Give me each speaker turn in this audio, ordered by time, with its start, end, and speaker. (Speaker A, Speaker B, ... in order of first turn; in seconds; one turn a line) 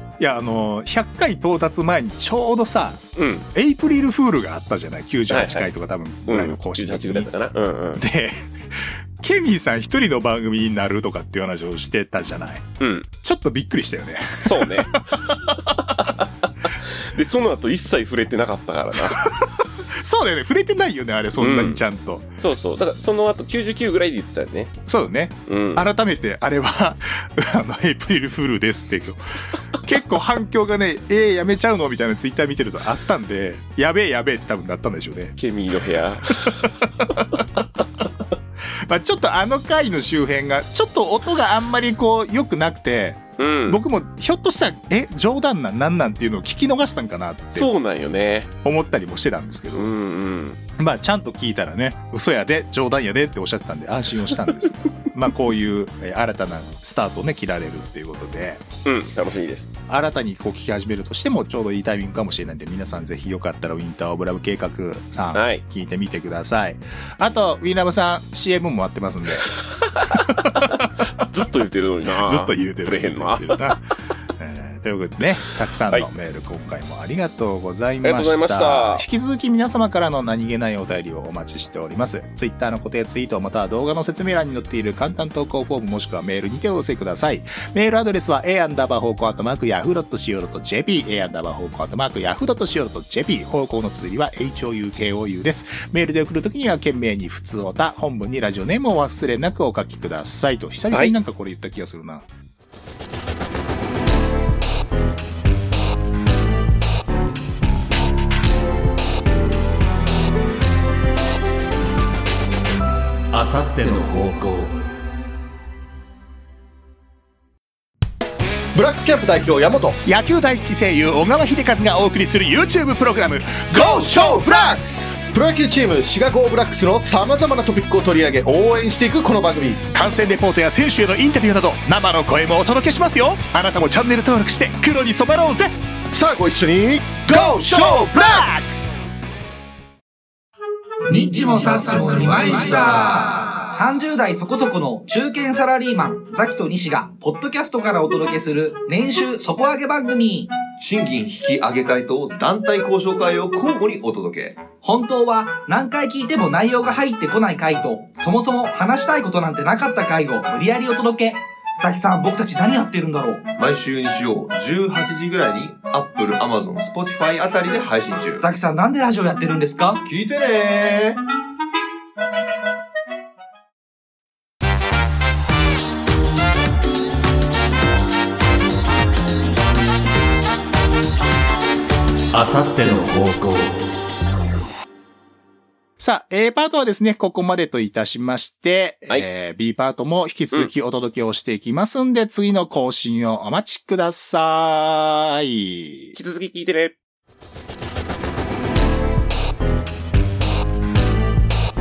Speaker A: 0.2-7.3
Speaker B: 3.1-3.5
Speaker B: 5.3-5.7
Speaker B: 6.3-8.0
Speaker A: 8.0-12.7
Speaker B: 12.8-13.1
Speaker A: 13.2-15.9
Speaker B: 14.4-15.0
Speaker B: 15.8-19.3
Speaker A: 19.0-22.3
Speaker B: 21.4-21.8
Speaker B: 22.4-24.7
Speaker A: 24.9-35.4
Speaker B: 25.5-25.9
Speaker B: 35.4-37.6
Speaker A: 36.2-37.4
Speaker A: 38.9-47.7
Speaker B: 43.4-43.8
Speaker B: 47.5-48.5
Speaker A: 48.6-49.9
Speaker B: 49.7-50.6
Speaker A: 50.8-58.6
Speaker B: 58.8-59.7
Speaker A: 59.9-69.5
Speaker B: 65.3-65.6
Speaker A: 70.1-71.0
Speaker B: 70.7-73.6
Speaker A: 72.2-102.3
Speaker B: 78.0-79.0
Speaker C: 113.3-114.8
Speaker D: 118.7-120.0
Speaker A: 120.0-124.9
Speaker D: 123.7-129.8
Speaker A: 129.9-135.7
Speaker D: 136.1-138.7
Speaker A: 137.3-138.9
Speaker E: 141.1-150.5
Speaker F: 150.7-154.6
Speaker E: 154.8-163.5
Speaker F: 163.6-168.4
Speaker E: 168.4-170.0
Speaker F: 170.0-171.2
Speaker C: 182.3-183.8
Speaker A: 186.0-196.1
Speaker B: 196.1-196.9